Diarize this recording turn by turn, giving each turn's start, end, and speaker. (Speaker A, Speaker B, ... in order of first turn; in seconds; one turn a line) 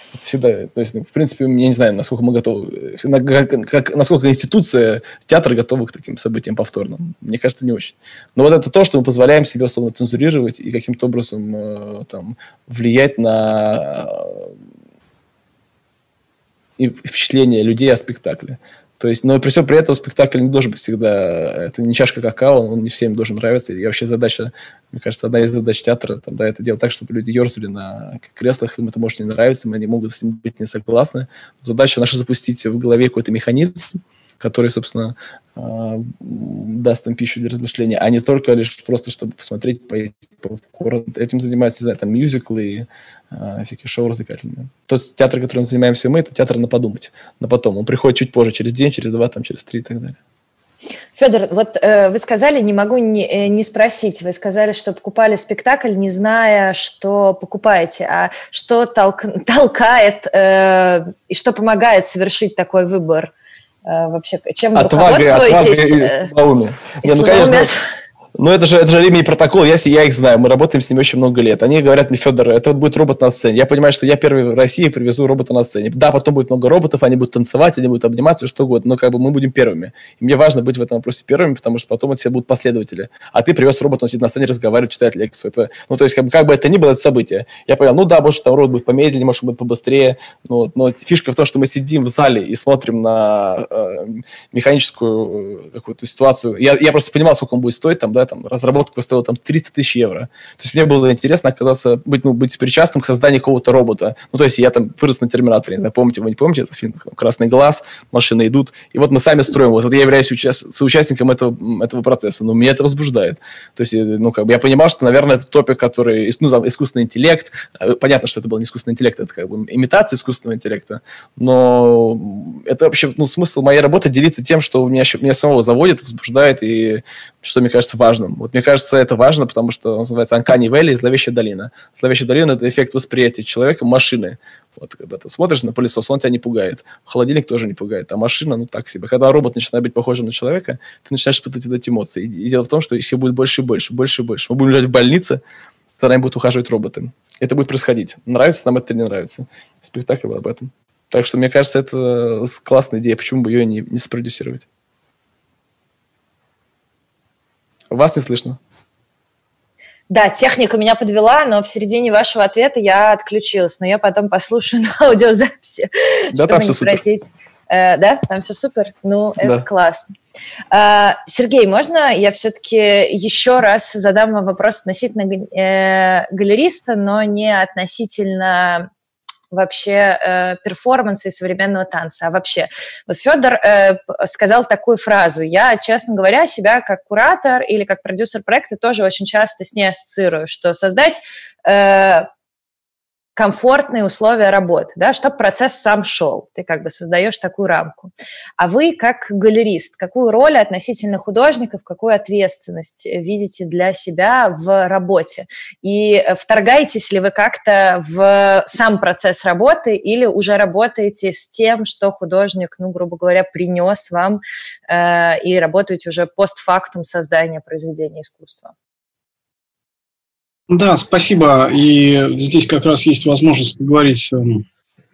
Speaker A: 0.1-14.5
Speaker A: 16.8-50.2
Speaker B: 51.1-63.3
Speaker B: 63.9-66.3
Speaker A: 64.8-67.7
Speaker B: 67.0-67.8
Speaker A: 68.4-145.4
Speaker A: 146.0-154.7
Speaker A: 157.9-158.6
Speaker B: 160.1-170.1
Speaker A: 166.3-167.0
Speaker A: 169.4-169.7
Speaker B: 170.7-178.9
Speaker B: 179.5-192.3
Speaker B: 193.4-218.7
Speaker C: 220.7-224.7